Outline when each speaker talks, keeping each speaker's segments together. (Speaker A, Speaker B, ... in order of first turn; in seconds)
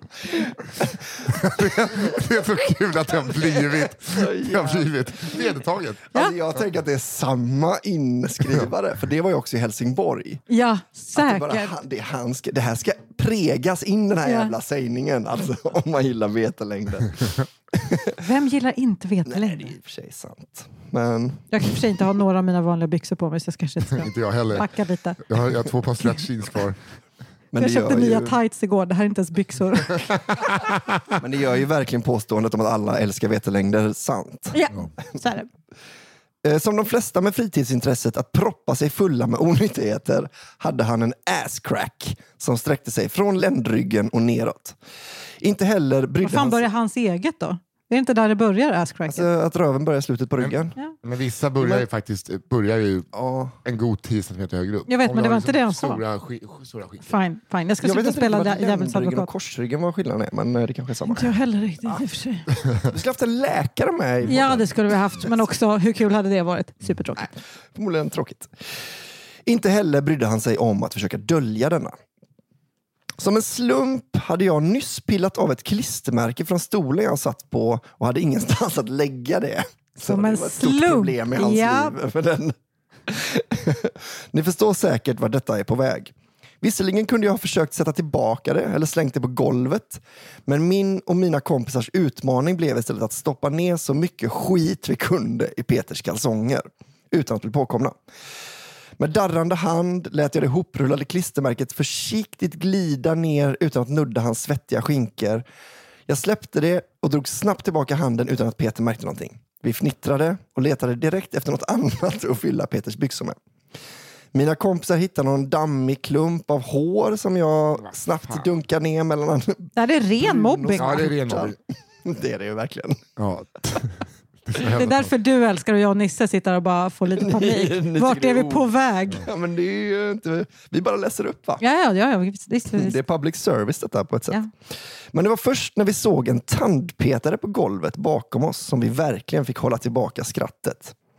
Speaker A: 0.8-1.6, 3.5-5.5, 6.1-10.4, 11.1-18.2, 19.3-21.8, 27.5-28.4, 31.2-34.6, 36.4-44.8, 45.4-46.6, 49.1-50.8, 51.6-51.9, 53.1-53.5, 57.8-61.3, 62.8-64.7, 67.2-68.8, 69.5-72.0, 73.2-98.0, 99.0-105.5, 106.1-113.4, 114.3-123.0, 127.2-131.6, 132.8-141.0
Speaker B: 1.2-6.2, 23.9-24.7, 25.3-26.8, 30.1-31.1, 50.4-53.1, 53.6-57.1, 117.8-118.5, 120.8-121.6, 123.2-125.1
Speaker C: 10.5-11.7, 14.2-14.6, 18.2-19.7, 21.5-25.2, 27.6-30.0, 34.5-35.5, 46.2-49.3, 54.9-56.0, 57.1-59.3, 61.1-62.5, 64.3-67.3, 80.1-81.9, 119.8-121.2, 124.6-129.3, 131.6-133.0